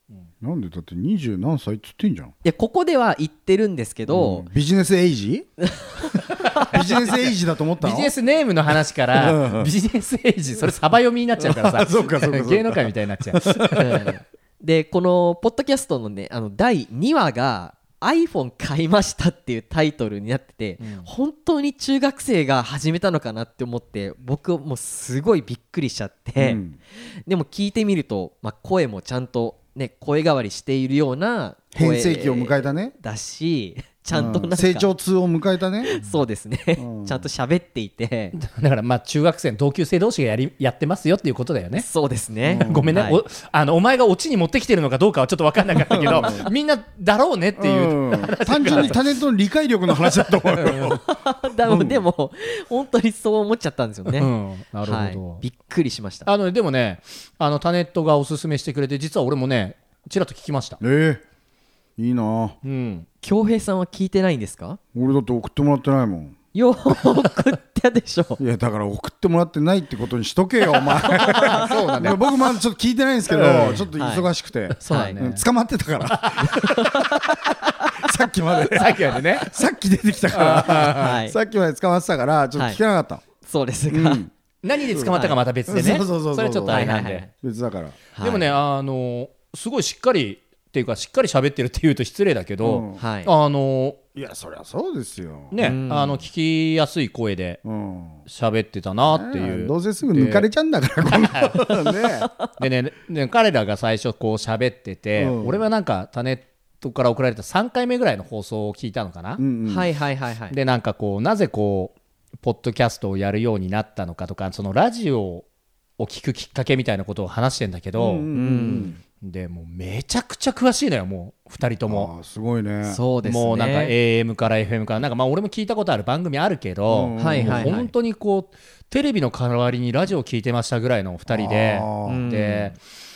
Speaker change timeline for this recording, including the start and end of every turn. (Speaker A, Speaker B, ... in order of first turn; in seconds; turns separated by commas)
Speaker A: 0.4-2.3, Speaker B: 2.4-4.5, Speaker A: 4.1-5.5, Speaker B: 5.7-6.6, Speaker A: 6.5-8.1, Speaker C: 6.6-7.1, Speaker C: 7.8-14.0, Speaker A: 9.1-9.7, Speaker A: 11.4-14.0, Speaker B: 13.8-26.6, Speaker C: 20.8-21.1, Speaker A: 26.4-26.8, Speaker B: 27.3-34.9, Speaker A: 31.7-32.9, Speaker A: 34.1-35.9, Speaker B: 35.8-38.3, Speaker A: 36.8-37.3, Speaker C: 38.4-41.9, Speaker B: 41.8-43.2, Speaker A: 42.4-43.0, Speaker C: 42.6-49.0, Speaker A: 45.8-46.5, Speaker A: 47.5-51.0, Speaker C: 50.6-51.0, Speaker B: 51.0-54.3, Speaker A: 51.6-52.0, Speaker C: 54.1-55.4, Speaker B: 54.8-56.3, Speaker C: 56.2-60.8, Speaker A: 60.8-61.2, Speaker A: 62.0-62.5, Speaker C: 62.6-63.1, Speaker B: 63.2-64.8, Speaker A: 64.9-66.3, Speaker B: 66.5-68.4, Speaker A: 68.4-76.6, Speaker B: 71.0-71.7, Speaker C: 71.4-72.2, Speaker C: 73.3-73.9, Speaker B: 74.0-74.3, Speaker C: 74.8-75.4, Speaker B: 74.9-75.2, Speaker C: 76.0-76.9, Speaker B: 76.5-77.5, Speaker A: 77.9-83.2, Speaker C: 78.7-79.6, Speaker C: 80.3-81.2, Speaker B: 80.9-81.3, Speaker B: 83.4-84.2, Speaker A: 83.9-84.3, Speaker C: 84.6-87.2, Speaker A: 84.9-88.0, Speaker B: 86.7-87.3, Speaker B: 88.2-88.5, Speaker C: 88.2-94.0, Speaker A: 92.6-93.0, Speaker B: 93.0-93.3, Speaker A: 94.1-95.8, Speaker C: 95.5-97.6, Speaker B: 95.6-96.2, Speaker A: 97.6-98.2, Speaker C: 98.3-100.5, Speaker A: 99.1-102.3, Speaker C: 101.2-101.7, Speaker B: 102.2-102.5, Speaker C: 102.6-109.4, Speaker A: 105.2-105.6, Speaker A: 109.4-109.9, Speaker B: 109.7-110.5, Speaker C: 110.5-115.4, Speaker C: 116.0-118.3, Speaker A: 118.0-119.0, Speaker B: 118.3-118.9, Speaker C: 119.2-122.1, Speaker A: 121.9-123.0, Speaker B: 122.8-123.9, Speaker C: 123.2-132.8, Speaker A: 126.9-127.8, Speaker B: 127.2-127.9, Speaker A: 131.3-132.3, Speaker B: 132.1-132.7